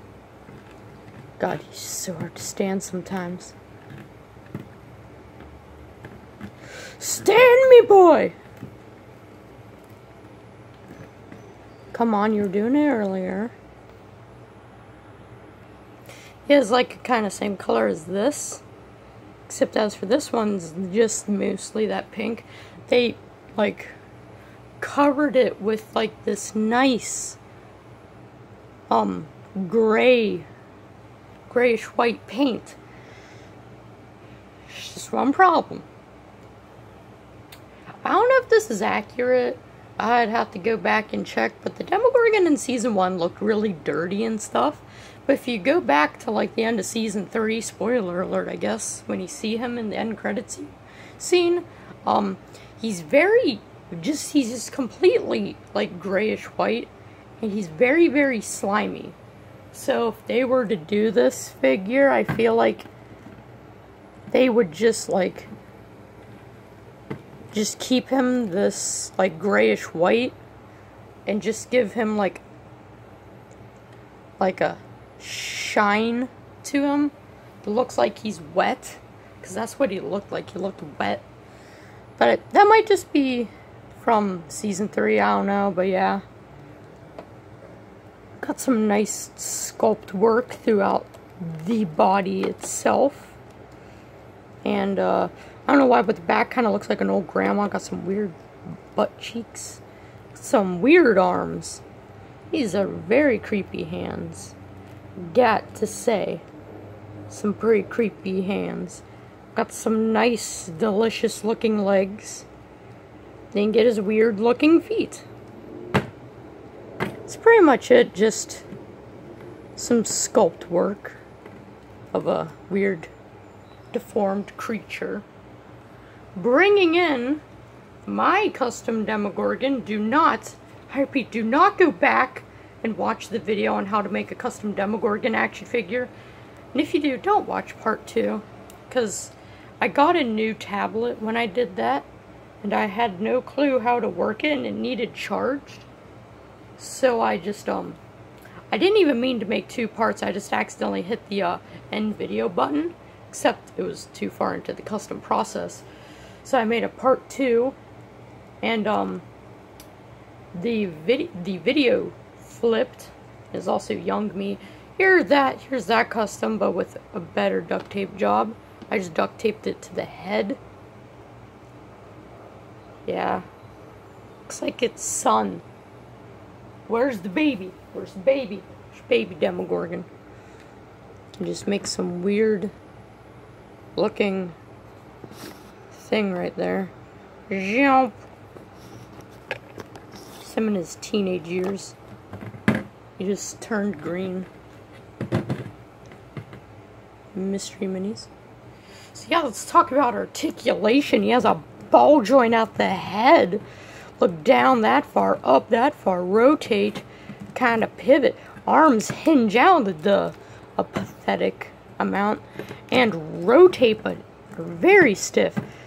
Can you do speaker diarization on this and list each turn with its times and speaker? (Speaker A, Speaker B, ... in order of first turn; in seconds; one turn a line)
Speaker A: 1.4-3.5
Speaker A: 7.0-8.4
Speaker A: 11.9-13.5
Speaker A: 16.5-18.6
Speaker A: 19.5-24.0
Speaker A: 24.8-27.4
Speaker A: 28.9-30.5
Speaker A: 31.5-32.8
Speaker A: 34.7-35.9
Speaker A: 38.0-59.2
Speaker A: 59.7-62.9
Speaker A: 64.3-65.5
Speaker A: 67.5-70.4
Speaker A: 71.3-72.4
Speaker A: 74.4-81.2
Speaker A: 82.2-86.2
Speaker A: 88.4-93.4
Speaker A: 94.6-98.4
Speaker A: 98.9-99.8
Speaker A: 100.3-101.8
Speaker A: 102.5-104.6
Speaker A: 105.2-106.5
Speaker A: 107.3-112.5
Speaker A: 113.5-115.3
Speaker A: 117.3-118.7
Speaker A: 119.8-121.2
Speaker A: 122.1-123.1
Speaker A: 123.9-125.2
Speaker A: 126.4-127.4
Speaker A: 128.1-136.1
Speaker A: 136.7-142.1
Speaker A: 142.6-145.9
Speaker A: 146.8-148.0
Speaker A: 148.7-155.8
Speaker A: 156.4-157.8
Speaker A: 158.6-159.2
Speaker A: 160.5-170.6
Speaker A: 173.1-173.4
Speaker A: 174.5-175.6
Speaker A: 176.9-180.1
Speaker A: 181.4-182.7
Speaker A: 184.0-184.6
Speaker A: 185.9-186.9
Speaker A: 187.5-188.2
Speaker A: 190.4-192.0
Speaker A: 193.2-194.5
Speaker A: 197.3-198.3
Speaker A: 199.1-203.6
Speaker A: 204.2-215.6